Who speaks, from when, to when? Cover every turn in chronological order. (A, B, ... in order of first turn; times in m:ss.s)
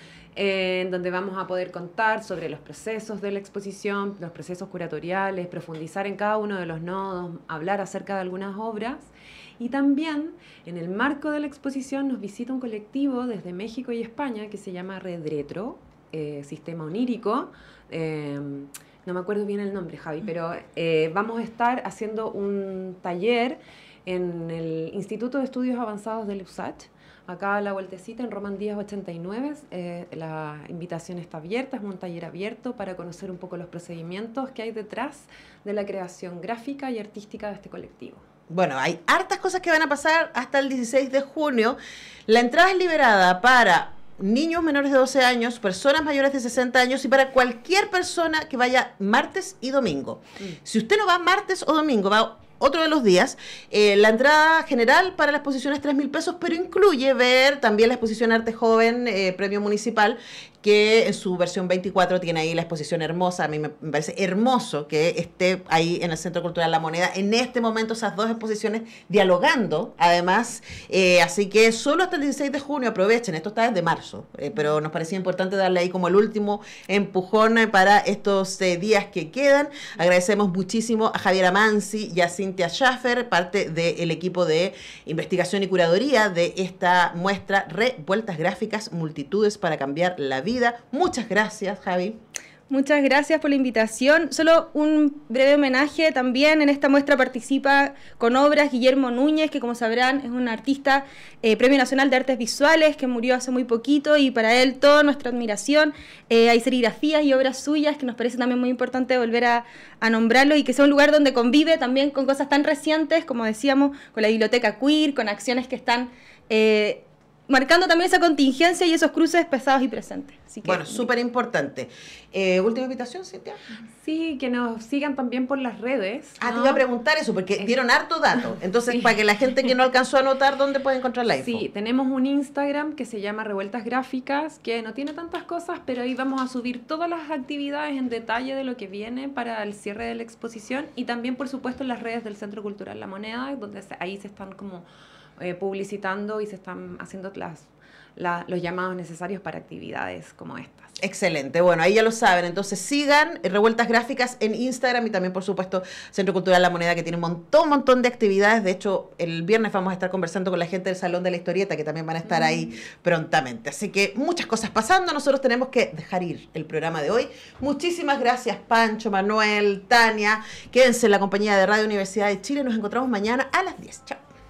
0:00.4-0:38.2 A
0:38.5-1:32.2 B
1:32.7-2:01.1 C
2:00.6-2:03.6 B
2:04.0-2:06.8 A
2:06.4-2:11.6 B
2:11.4-2:24.9 A
2:25.4-2:31.0 A
2:31.0-2:54.2 B